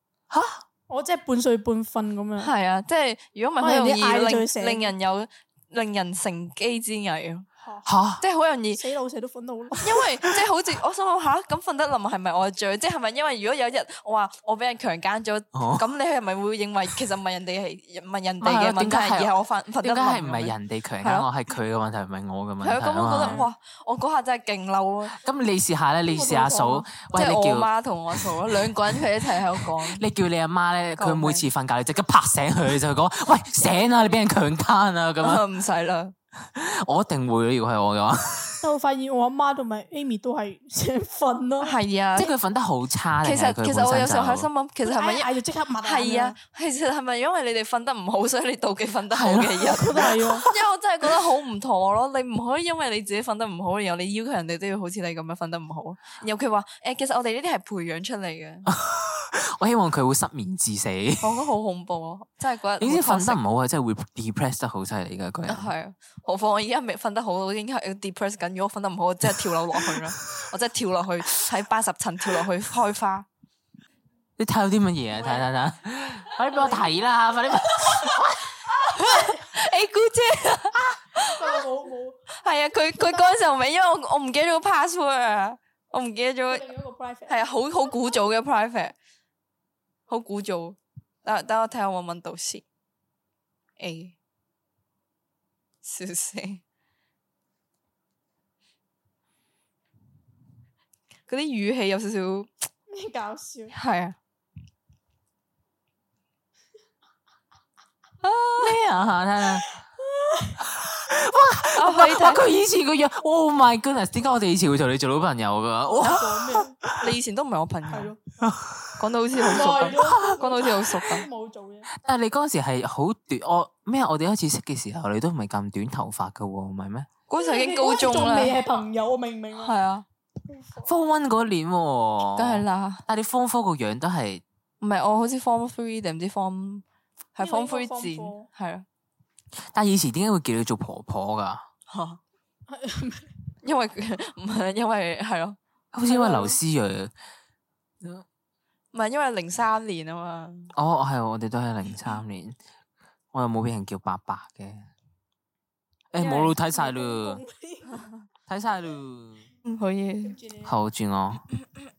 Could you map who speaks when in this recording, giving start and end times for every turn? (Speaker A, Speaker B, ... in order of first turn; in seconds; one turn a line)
Speaker A: 0.3-0.6
Speaker B: 0.9-2.5
Speaker C: 2.4-7.5
Speaker B: 3.6-4.9
Speaker B: 7.6-7.9
Speaker A: 7.8-8.2
Speaker C: 8.2-8.8
Speaker B: 8.7-10.1
Speaker C: 9.8-21.3
Speaker A: 15.6-15.9
Speaker A: 18.4-23.4
Speaker C: 22.6-25.1
Speaker B: 23.2-23.5
Speaker A: 25.1-35.4
Speaker B: 26.1-26.9
Speaker C: 27.1-30.0
Speaker C: 31.0-31.4
Speaker C: 35.2-36.1
Speaker A: 36.4-38.7
Speaker B: 38.6-41.8
Speaker C: 41.6-42.3
Speaker A: 42.2-44.5
Speaker C: 43.2-58.7
Speaker B: 44.8-46.4
Speaker A: 49.1-50.0
Speaker B: 49.6-50.5
Speaker A: 58.7-61.4
Speaker C: 61.2-63.4
Speaker A: 62.8-65.7
Speaker C: 65.5-73.3
Speaker A: 69.9-70.5
Speaker A: 74.4-78.6
Speaker B: 75.1-75.5
Speaker B: 76.5-76.9
Speaker B: 77.8-78.1
Speaker C: 78.7-81.6
Speaker B: 78.9-79.5
Speaker B: 81.2-82.2
Speaker C: 82.4-86.7
Speaker B: 83.0-83.4
Speaker B: 86.5-87.5
Speaker C: 87.3-89.0
Speaker C: 90.1-92.6
Speaker C: 93.8-94.2
Speaker C: 95.8-96.6
Speaker C: 101.3-102.5
Speaker B: 102.9-103.8
Speaker C: 103.7-104.2
Speaker C: 108.2-108.8
Speaker A: 108.6-109.7
Speaker B: 109.8-110.6
Speaker A: 110.6-117.0
Speaker C: 111.8-112.4
Speaker B: 115.9-116.8
Speaker C: 116.0-116.3
Speaker C: 116.9-118.1
Speaker B: 117.9-118.2
Speaker A: 118.4-119.0
Speaker C: 119.0-121.3
Speaker B: 119.4-121.9
Speaker A: 120.0-121.0
Speaker A: 122.0-127.1
Speaker C: 127.3-128.6
Speaker B: 127.4-129.8
Speaker C: 129.6-130.1
Speaker B: 130.5-130.9
Speaker A: 130.8-134.4
Speaker C: 132.4-133.0
Speaker C: 134.8-138.8
Speaker B: 137.4-138.5
Speaker A: 139.6-141.7
Speaker C: 141.9-142.2
Speaker B: 142.7-143.3
Speaker C: 143.6-145.6
Speaker A: 145.9-147.1
Speaker B: 146.1-146.5
Speaker C: 148.9-150.7
Speaker A: 150.7-152.6
Speaker A: 153.3-154.9
Speaker A: 156.1-157.4
Speaker B: 156.2-158.1
Speaker A: 158.5-159.5
Speaker C: 159.7-160.4
Speaker B: 160.2-160.7
Speaker A: 160.7-161.5